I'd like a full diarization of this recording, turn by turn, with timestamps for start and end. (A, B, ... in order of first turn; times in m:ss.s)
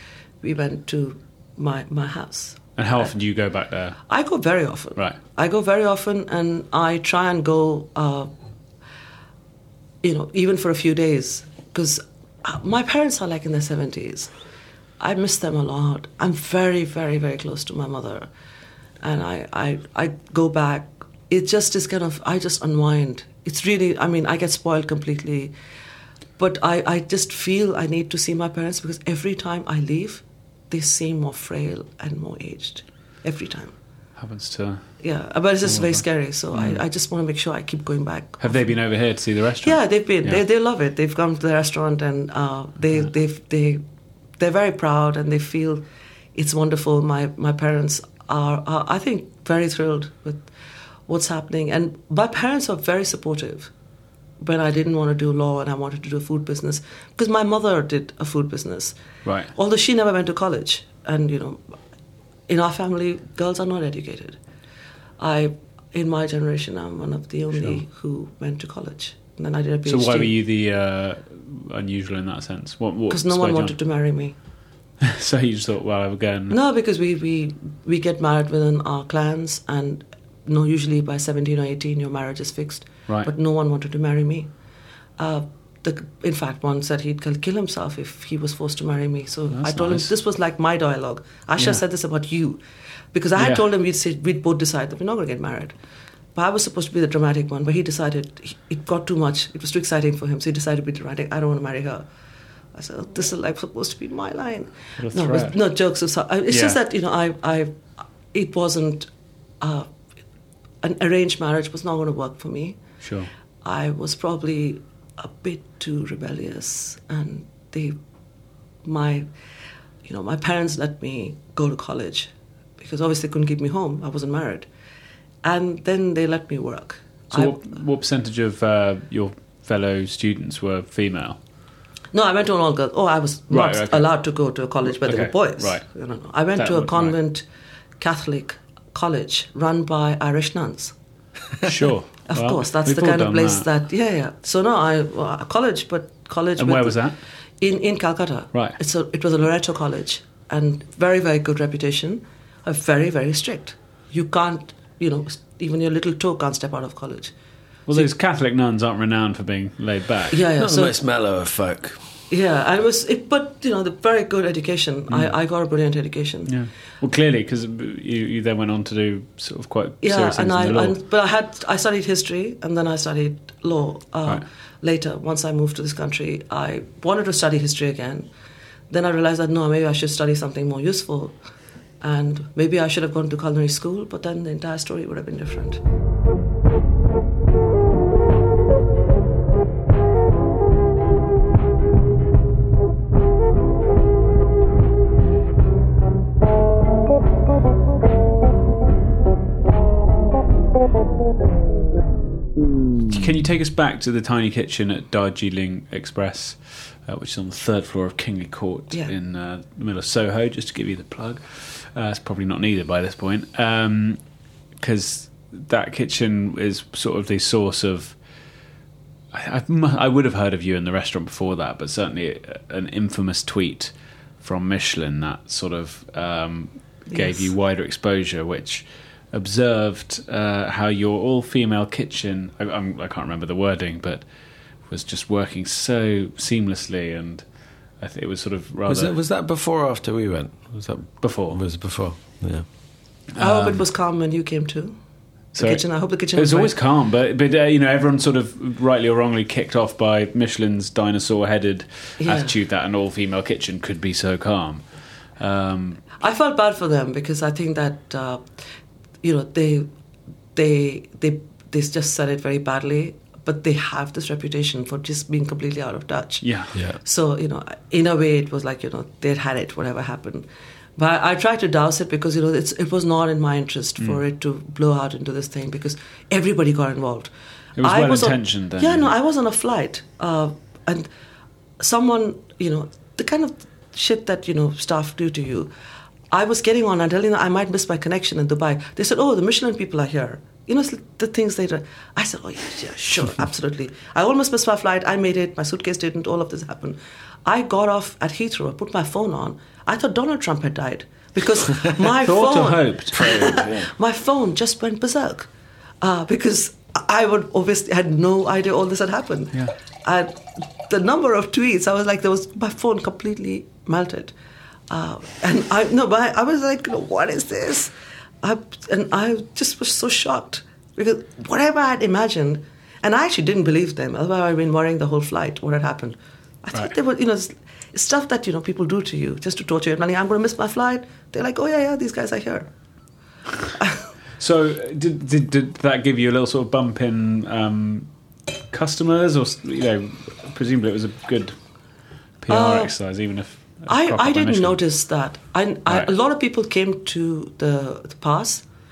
0:00.4-0:03.1 A
0:02.8-0:04.0 B
0:04.1-0:08.3 A
0:10.0-0:14.3 A
0:15.0-0:18.3 A
0:19.0-0:25.5 A
0:26.4-0:33.7 A
0:34.2-0:34.8 B
0:35.0-0:38.8 A
0:35.6-0:36.8 B
0:38.4-0:40.4 B
0:39.6-0:43.8 A
0:44.4-0:45.8 A
0:46.3-0:50.5 A
0:51.1-0:53.7 A
0:54.4-0:59.0 A
0:59.2-0:59.5 B
0:59.5-1:01.7 A
1:02.5-1:04.4 A
1:05.2-1:10.3 A
1:09.8-1:13.8 B
1:13.1-1:14.3 A
1:15.0-1:16.6 B
1:16.5-1:24.5 A
1:25.2-1:32.6 A
1:29.5-1:30.1 B
1:33.1-1:35.7 A
1:33.4-1:33.6 B
1:36.3-1:42.0 A
1:42.7-1:47.7 A
1:45.0-1:45.5 B
1:46.5-1:46.8 B
1:48.3-1:49.1 A
1:49.6-1:49.9 A
1:50.8-1:52.8 A
1:53.0-1:53.3 B
1:53.6-1:58.0 A
1:58.8-1:59.3 A
2:00.0-2:04.7 A
2:05.4-2:07.6 A
2:07.3-2:11.4 B
2:12.1-2:17.4 A
2:13.5-2:14.1 B
2:14.8-2:15.8 B
2:16.6-2:17.2 B
2:18.0-2:20.9 A
2:21.6-2:23.7 B
2:22.2-2:27.0 A
2:26.6-2:27.2 B
2:27.6-2:37.3 A
2:37.9-2:40.4 B
2:40.3-2:41.0 A
2:40.6-2:42.0 C
2:42.3-2:46.5 A
2:46.5-2:51.0 B
2:50.0-2:58.3 A
2:58.9-3:01.3 A
3:02.0-3:05.8 A
3:23.1-3:34.2 B
3:34.8-3:38.2 B
3:39.3-3:54.2 B
3:47.1-3:47.5 A
3:54.9-3:57.4 B
3:58.0-3:59.1 B
3:58.9-4:02.6 C
4:01.2-4:01.6 B
4:03.3-4:03.8 B
4:03.4-4:05.0 A
4:05.5-4:14.8 B
4:05.5-4:06.7 A
4:12.2-4:12.5 A
4:15.4-4:16.0 B
4:16.2-4:18.4 A
4:19.2-4:19.9 A
4:20.5-4:41.1 A
4:26.4-4:26.7 B
4:37.8-4:39.1 B
4:41.8-4:45.7 A
4:46.3-5:05.5 A
5:02.2-5:03.5 B
5:03.1-5:03.9 C
5:06.0-5:14.3 A
5:14.9-5:32.7 A
5:34.4-5:38.1 B
5:38.7-5:41.5 B
5:42.4-5:44.8 B
5:42.5-5:42.9 A
5:43.9-5:48.6 A